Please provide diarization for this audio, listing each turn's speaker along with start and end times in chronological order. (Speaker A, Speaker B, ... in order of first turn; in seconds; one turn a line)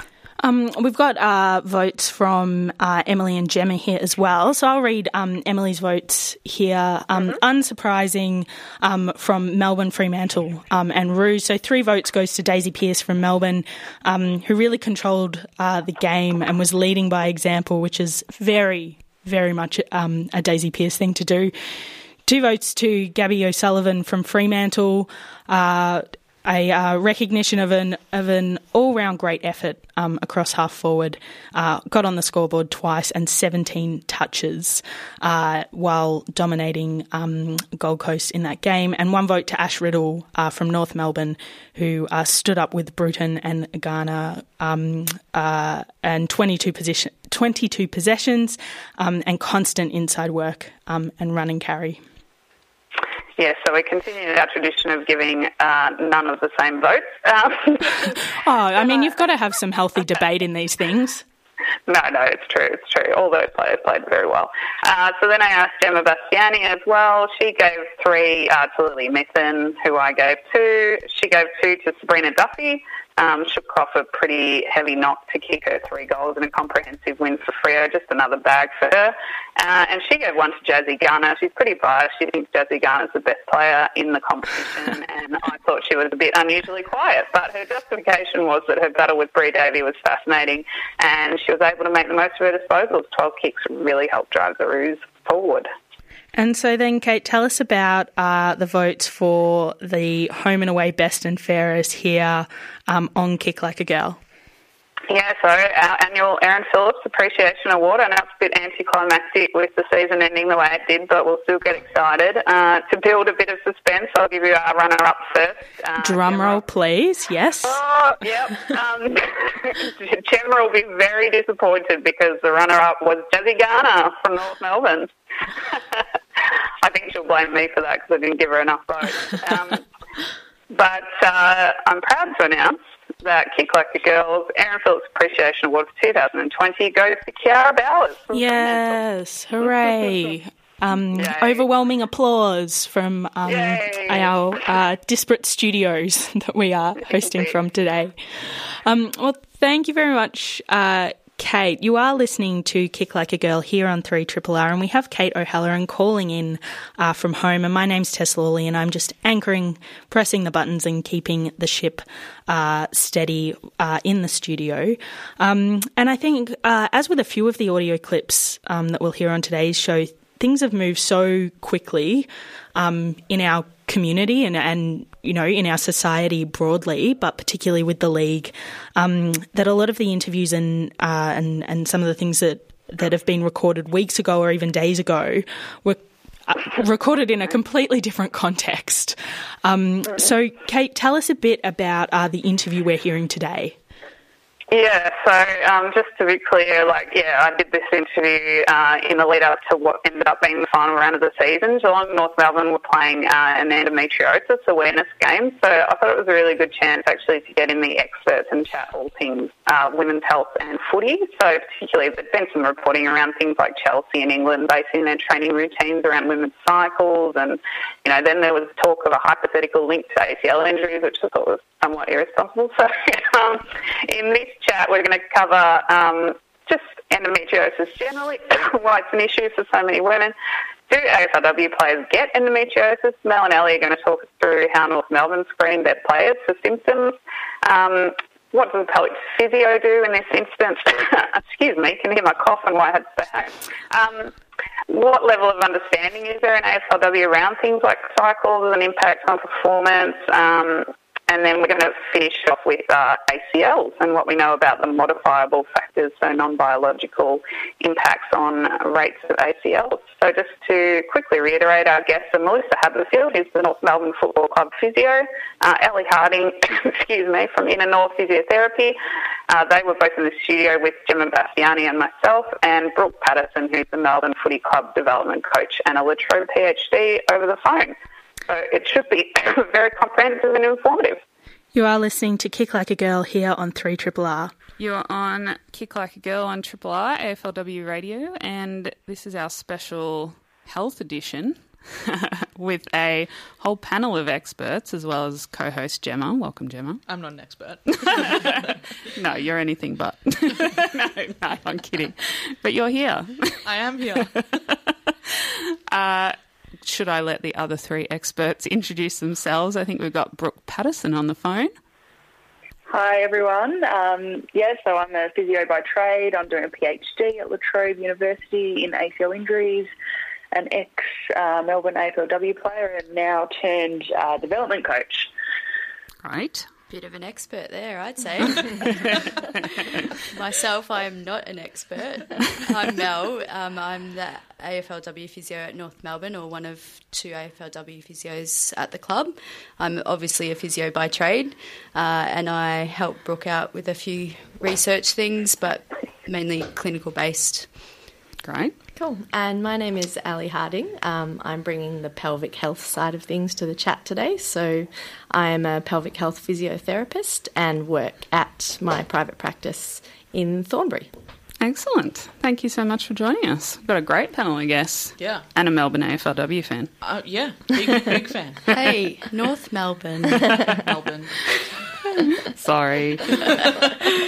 Speaker A: 0.4-21.5
Speaker A: 22.2-52.0
Speaker B: 53.4-58.2
Speaker A: 58.2-61.2
Speaker B: 61.9-95.7
Speaker A: 96.3-104.2
Speaker B: 105.1-116.6
Speaker A: 116.0-117.8
Speaker B: 117.6-126.0
Speaker B: 126.8-129.8
Speaker B: 130.7-139.0
Speaker A: 138.3-193.8
Speaker B: 139.6-140.3
Speaker B: 141.1-141.6
Speaker B: 143.4-144.3
Speaker B: 147.1-147.5
Speaker B: 194.7-230.3
Speaker B: 230.9-244.3
Speaker B: 244.9-268.9
Speaker B: 269.5-277.9
Speaker B: 278.5-281.2
Speaker A: 281.7-284.5
Speaker C: 284.8-297.0
Speaker D: 297.1-298.8
Speaker C: 298.1-303.6
Speaker D: 303.6-304.6
Speaker C: 305.9-311.7
Speaker E: 312.9-319.9
Speaker E: 320.5-325.3
Speaker C: 326.2-326.7
Speaker F: 326.9-329.5
Speaker F: 330.2-347.9
Speaker C: 348.4-348.7
Speaker G: 348.9-361.1
Speaker C: 361.6-366.9
Speaker D: 365.2-365.4
Speaker D: 367.0-368.7
Speaker F: 368.7-370.6
Speaker D: 370.7-371.6
Speaker C: 372.6-373.5